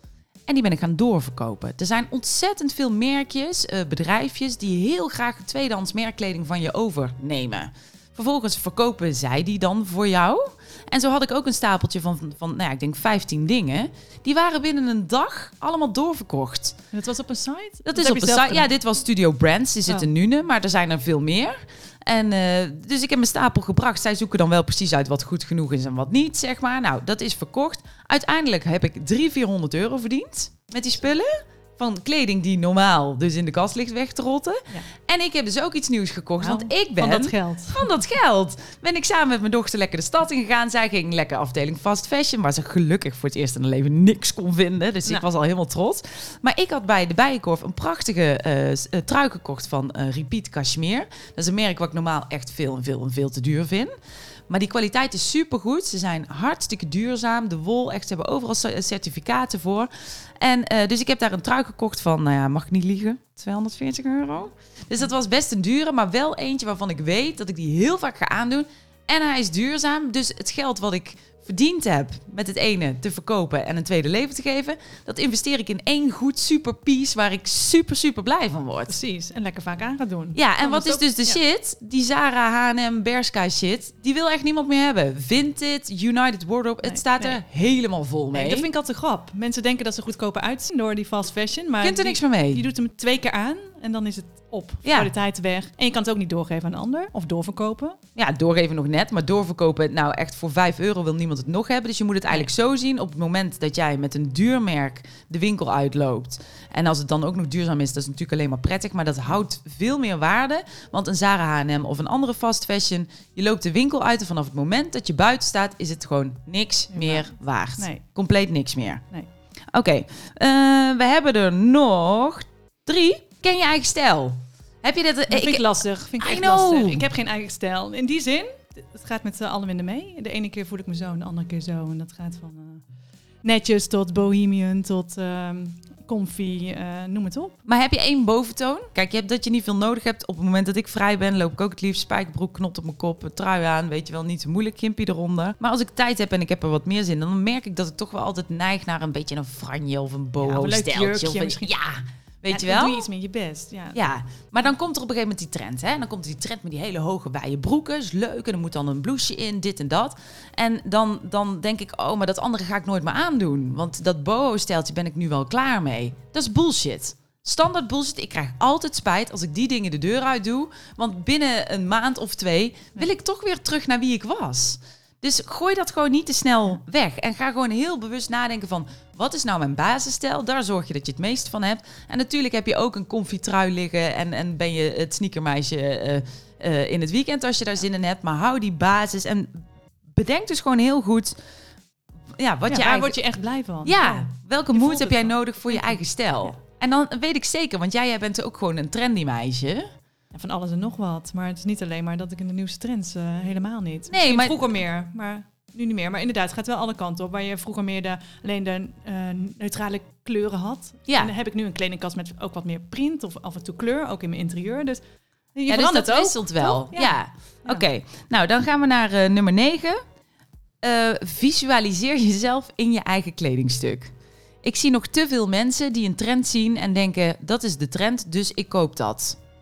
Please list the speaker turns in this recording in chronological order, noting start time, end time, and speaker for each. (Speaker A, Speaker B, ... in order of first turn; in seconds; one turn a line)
Speaker A: 0.5-16.8
Speaker B: 16.9-18.7
Speaker A: 17.9-53.9
Speaker B: 36.4-37.9
Speaker A: 54.5-59.9
Speaker A: 60.4-79.0
Speaker B: 78.9-81.4
Speaker A: 80.3-88.7
Speaker B: 86.8-87.4
Speaker B: 88.3-98.0
Speaker A: 91.8-92.6
Speaker A: 94.8-95.1
Speaker A: 98.2-119.0
Speaker B: 116.9-118.0
Speaker A: 119.7-127.1
Speaker B: 125.3-132.8
Speaker B: 133.4-137.6
Speaker A: 137.7-153.1
Speaker B: 150.4-151.7
Speaker B: 152.5-154.0
Speaker A: 153.9-191.4
Speaker A: 192.3-193.2
Speaker B: 192.7-196.6
Speaker A: 193.8-199.9
Speaker B: 200.3-217.8
Speaker A: 204.1-204.6
Speaker A: 215.7-220.0
Speaker A: 220.8-224.1
Speaker A: 224.6-229.4